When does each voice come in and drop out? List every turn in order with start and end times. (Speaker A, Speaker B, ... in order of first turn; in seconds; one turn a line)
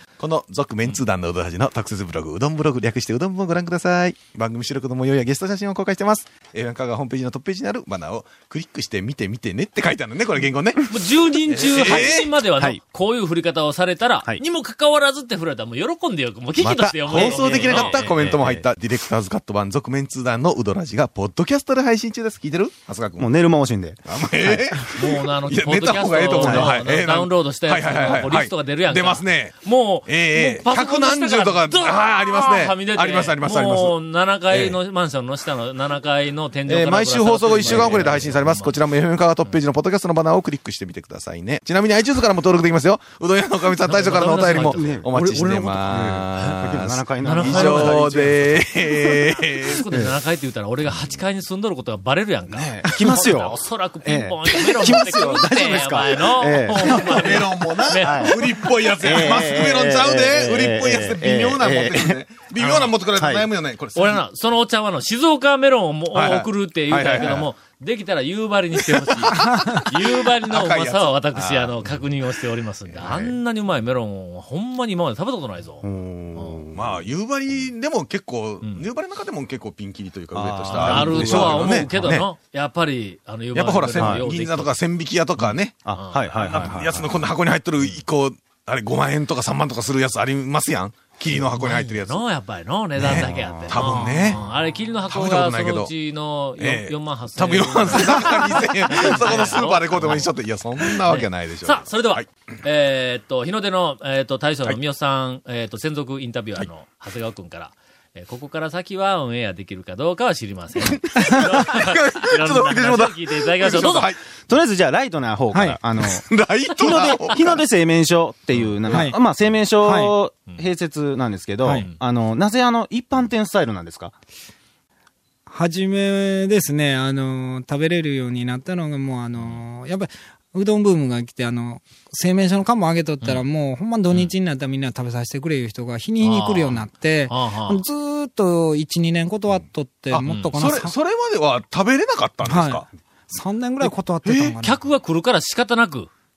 Speaker A: 0.2-10.9
Speaker B: 10.9-18.6
Speaker A: 11.4-12.3
Speaker A: 16.6-23.3
Speaker C: 17.1-18.5
Speaker C: 23.2-24.7
Speaker A: 24.1-34.0
Speaker B: 24.9-38.8
Speaker C: 26.3-26.8
Speaker A: 34.5-34.8
Speaker A: 36.7-49.8
Speaker C: 37.6-38.3
Speaker B: 43.9-45.1
Speaker C: 44.6-49.1
Speaker B: 47.2-48.5
Speaker B: 49.2-58.4
Speaker C: 52.5-57.4
Speaker A: 57.0-64.2
Speaker C: 58.0-58.4
Speaker C: 59.0-62.2
Speaker C: 63.1-63.5
Speaker B: 64.0-76.7
Speaker A: 66.1-67.5
Speaker A: 68.8-69.3
Speaker D: 69.3-69.8
Speaker A: 70.0-72.0
Speaker C: 73.0-73.4
Speaker C: 75.8-77.0
Speaker A: 76.7-82.3
Speaker B: 78.6-78.9
Speaker C: 80.3-82.1
Speaker B: 80.7-84.8
Speaker A: 83.5-85.8
Speaker C: 83.9-84.2
Speaker B: 85.4-86.8
Speaker C: 85.8-87.1
Speaker A: 86.4-92.2
Speaker B: 91.5-114.2
Speaker A: 93.0-94.4
Speaker C: 93.0-93.8
Speaker A: 95.1-95.9
Speaker A: 96.6-102.3
Speaker A: 111.0-114.2
Speaker C: 114.5-116.2
Speaker D: 115.5-115.8
Speaker A: 116.0-117.6
Speaker C: 116.8-124.2
Speaker B: 118.5-119.1
Speaker D: 118.9-119.2
Speaker D: 119.8-120.2
Speaker D: 125.5-141.0
Speaker B: 129.4-129.6
Speaker B: 136.2-137.8
Speaker A: 140.1-142.8
Speaker B: 140.2-140.6
Speaker D: 142.4-144.8
Speaker A: 143.8-144.6
Speaker B: 144.6-146.1